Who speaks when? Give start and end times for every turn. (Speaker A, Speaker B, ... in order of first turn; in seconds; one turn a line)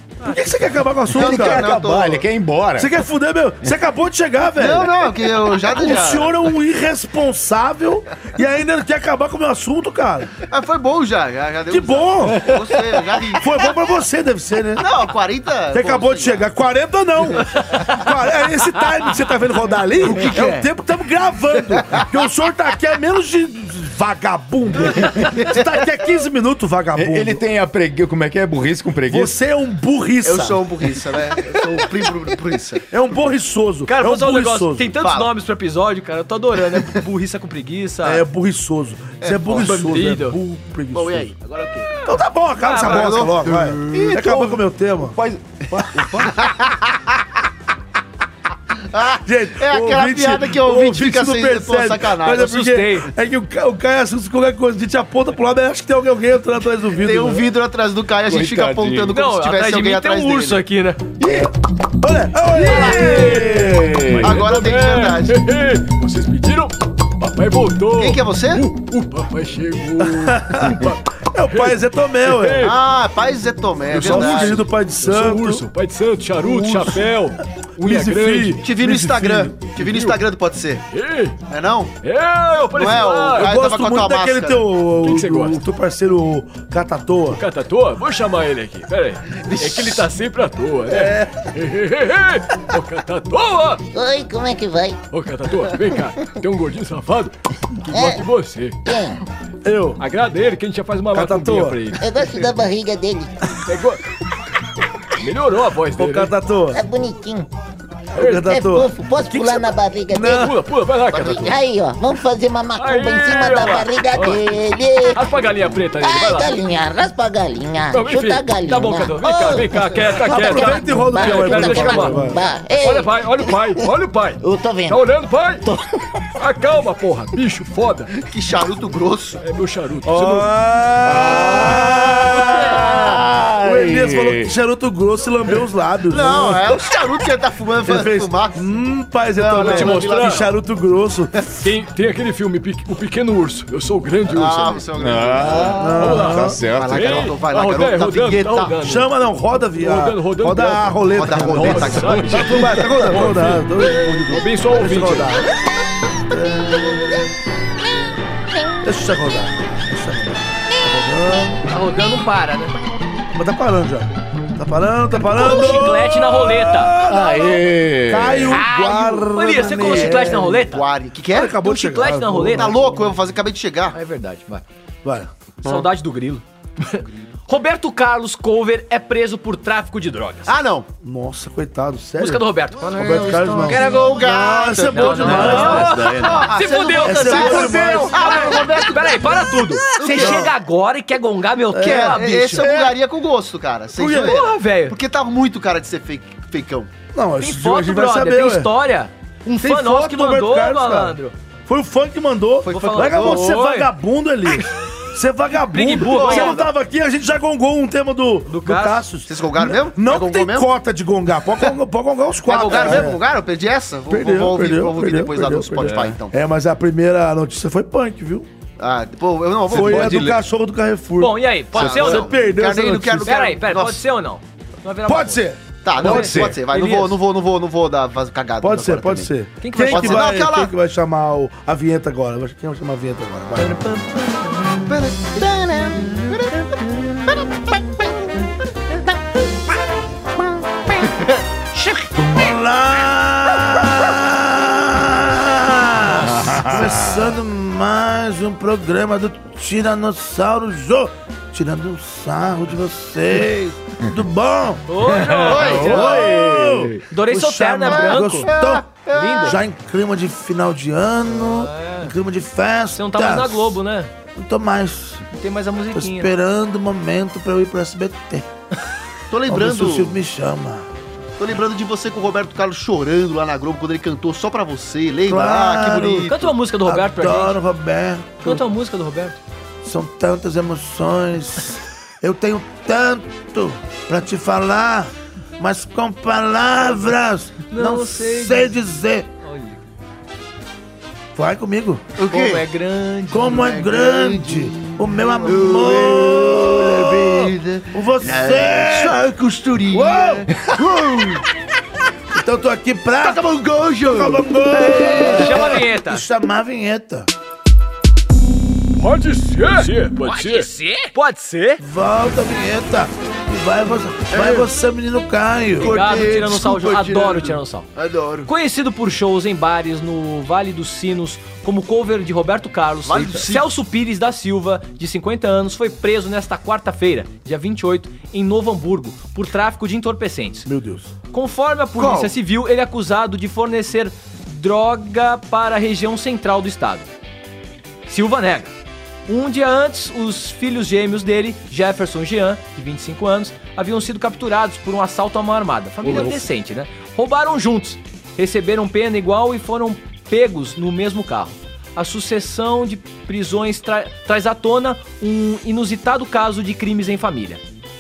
Speaker A: 0.2-1.9
Speaker B: 1.1-2.2
Speaker C: 1.2-3.0
Speaker A: 2.8-10.4
Speaker B: 4.6-6.4
Speaker B: 10.5-13.7
Speaker A: 11.7-12.6
Speaker A: 13.4-14.9
Speaker B: 14.8-16.5
Speaker A: 15.7-27.4
Speaker B: 20.0-20.7
Speaker B: 21.7-22.1
Speaker B: 25.3-25.6
Speaker C: 26.9-29.4
Speaker A: 29.1-30.7
Speaker B: 30.2-32.9
Speaker A: 32.9-34.9
Speaker D: 33.9-38.2
Speaker B: 34.9-35.3
Speaker A: 38.0-41.3
Speaker B: 39.2-39.8
Speaker D: 39.6-40.4
Speaker B: 40.9-41.9
Speaker A: 42.1-45.2
Speaker D: 42.6-43.3
Speaker B: 42.8-44.4
Speaker C: 43.9-46.3
Speaker B: 46.2-46.8
Speaker B: 48.9-52.5
Speaker A: 49.3-57.5
Speaker D: 52.4-53.1
Speaker B: 56.9-60.6
Speaker C: 58.3-59.2
Speaker D: 59.1-61.1
Speaker C: 61.2-61.5
Speaker A: 61.2-64.0
Speaker C: 62.7-64.5
Speaker E: 62.7-63.5
Speaker B: 64.2-65.4
Speaker E: 64.2-72.8
Speaker B: 67.9-68.7
Speaker A: 70.2-72.7
Speaker B: 72.6-74.7
Speaker A: 73.9-75.7
Speaker E: 74.0-78.6
Speaker A: 76.4-77.1
Speaker A: 77.8-79.7
Speaker B: 78.6-80.8
Speaker E: 79.7-80.2
Speaker E: 80.9-81.3
Speaker B: 81.5-81.9
Speaker E: 82.0-83.5
Speaker B: 82.7-84.7
Speaker A: 83.3-87.4
Speaker E: 85.0-85.6
Speaker E: 87.4-93.8
Speaker B: 89.3-90.0
Speaker A: 90.9-91.4
Speaker F: 93.9-95.0
Speaker E: 95.1-97.3
Speaker E: 97.9-98.8
Speaker F: 97.9-98.2
Speaker F: 98.8-99.2
Speaker A: 99.6-100.0
Speaker E: 100.0-102.0
Speaker A: 101.1-101.9
Speaker F: 102.0-103.4
Speaker E: 103.7-104.0
Speaker E: 105.2-106.3
Speaker A: 106.0-106.8
Speaker F: 106.7-107.5
Speaker A: 108.2-110.5
Speaker E: 108.2-108.4
Speaker F: 108.3-110.5
Speaker E: 110.4-111.5
Speaker F: 111.1-115.3
Speaker E: 112.8-114.4
Speaker E: 115.2-116.5
Speaker F: 116.0-123.9
Speaker E: 117.9-118.5
Speaker D: 118.6-122.1
Speaker E: 119.1-122.2
Speaker A: 120.3-122.4
Speaker E: 122.8-125.6
Speaker F: 124.4-125.0
Speaker F: 125.6-125.9
Speaker E: 126.4-128.1
Speaker B: 128.2-129.4
Speaker E: 129.4-130.5
Speaker A: 130.1-136.8
Speaker C: 131.0-134.5
Speaker B: 136.1-138.6
Speaker A: 137.8-141.5
Speaker B: 139.3-140.5
Speaker E: 139.6-140.4
Speaker E: 141.6-144.9
Speaker B: 144.3-146.0
Speaker C: 145.0-147.4
Speaker A: 145.7-146.6
Speaker E: 146.0-149.1
Speaker B: 146.5-148.8
Speaker A: 148.8-155.5
Speaker E: 149.8-155.4
Speaker B: 151.1-153.2
Speaker C: 151.8-152.7
Speaker A: 156.3-156.6
Speaker A: 158.8-161.7
Speaker D: 161.7-162.8
Speaker A: 163.3-170.6
Speaker D: 165.2-167.0
Speaker C: 167.0-168.7
Speaker D: 168.5-170.9
Speaker B: 169.8-171.6
Speaker A: 171.3-173.1
Speaker D: 171.5-172.7
Speaker B: 172.5-174.0
Speaker D: 173.9-174.6
Speaker A: 175.0-175.3
Speaker D: 175.6-180.5
Speaker B: 180.5-180.9
Speaker A: 181.0-186.2
Speaker D: 182.2-192.9
Speaker B: 183.0-190.5
Speaker C: 185.2-186.5
Speaker A: 187.0-188.6
Speaker A: 190.1-190.5
Speaker A: 191.7-192.9
Speaker B: 191.8-196.9
Speaker A: 194.0-194.4
Speaker D: 194.1-195.0
Speaker A: 197.1-198.7
Speaker D: 197.4-201.3
Speaker A: 199.6-213.2
Speaker D: 202.7-203.9
Speaker B: 202.9-203.5
Speaker D: 205.7-206.7
Speaker B: 206.0-206.7
Speaker D: 208.5-209.1
Speaker B: 209.2-210.7
Speaker B: 212.5-216.3
Speaker D: 212.5-213.1
Speaker A: 214.1-218.5
Speaker C: 215.8-216.1
Speaker B: 218.8-220.3
Speaker C: 219.7-220.4
Speaker A: 219.7-223.4
Speaker D: 221.2-222.3
Speaker B: 221.7-224.1
Speaker D: 223.2-225.5
Speaker A: 225.1-226.4
Speaker B: 225.8-230.7
Speaker D: 226.0-227.2
Speaker C: 226.0-226.6
Speaker A: 228.6-233.8
Speaker D: 229.6-230.4
Speaker D: 233.6-234.8
Speaker B: 234.8-236.6
Speaker A: 242.2-254.8
Speaker C: 246.1-247.3
Speaker D: 254.9-256.2
Speaker C: 255.1-257.1
Speaker B: 255.4-256.3
Speaker A: 255.8-263.8
Speaker D: 257.1-258.5
Speaker B: 257.9-259.6
Speaker D: 259.1-259.6
Speaker D: 261.3-262.1
Speaker D: 262.9-264.1
Speaker A: 264.4-265.2
Speaker D: 265.3-266.4
Speaker A: 265.9-268.5
Speaker B: 269.3-270.2
Speaker A: 269.5-270.9
Speaker B: 271.4-276.6
Speaker A: 275.3-276.3
Speaker D: 276.3-277.6
Speaker A: 276.8-278.6
Speaker D: 278.4-279.4
Speaker A: 279.8-289.3
Speaker D: 287.7-288.8
Speaker D: 289.4-289.8
Speaker A: 291.4-292.1
Speaker B: 292.2-292.7
Speaker D: 292.3-293.7
Speaker A: 293.3-299.2
Speaker B: 293.5-301.4
Speaker A: 299.9-300.5
Speaker A: 302.3-303.5
Speaker B: 303.2-305.8
Speaker A: 304.0-307.3
Speaker D: 305.2-306.3
Speaker E: 309.0-310.7
Speaker D: 310.2-311.8
Speaker A: 311.8-316.0
Speaker B: 314.3-314.7
Speaker B: 315.8-318.5
Speaker D: 315.8-317.9
Speaker D: 318.4-330.7
Speaker B: 323.1-323.7
Speaker A: 330.7-331.1
Speaker D: 331.3-337.1
Speaker B: 332.0-332.4
Speaker D: 338.1-338.7
Speaker D: 339.3-357.6